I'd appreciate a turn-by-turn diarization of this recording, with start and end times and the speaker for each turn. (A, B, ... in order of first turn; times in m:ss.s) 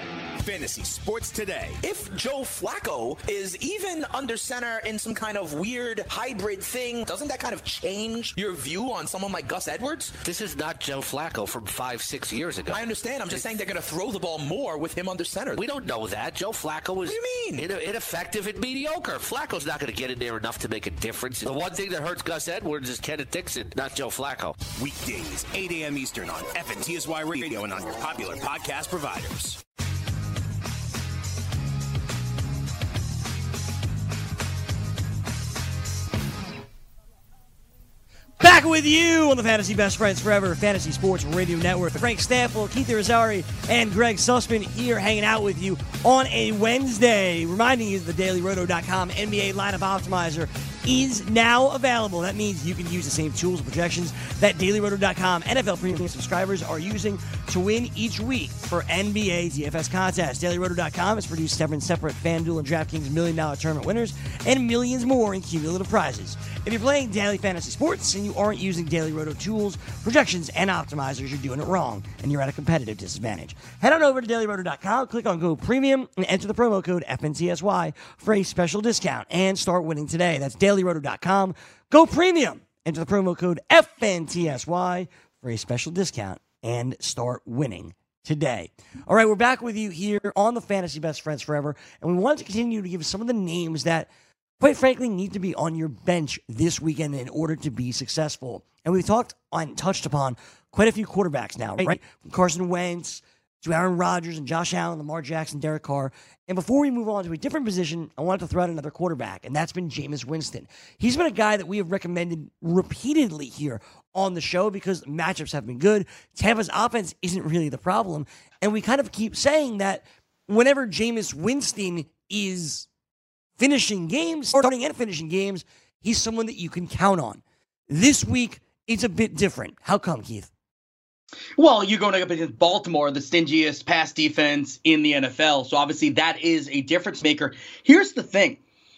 0:00.4-0:01.8 A
0:01.8-0:10.2 B
0:10.2-0:13.4 C
0:12.7-0:15.7 B
0:15.6-0:24.6 C
0:17.0-0:17.7 B
0:24.7-0:29.6 A
0:38.4-2:02.9 D
2:03.6-2:10.5 D
2:11.6-2:18.6 E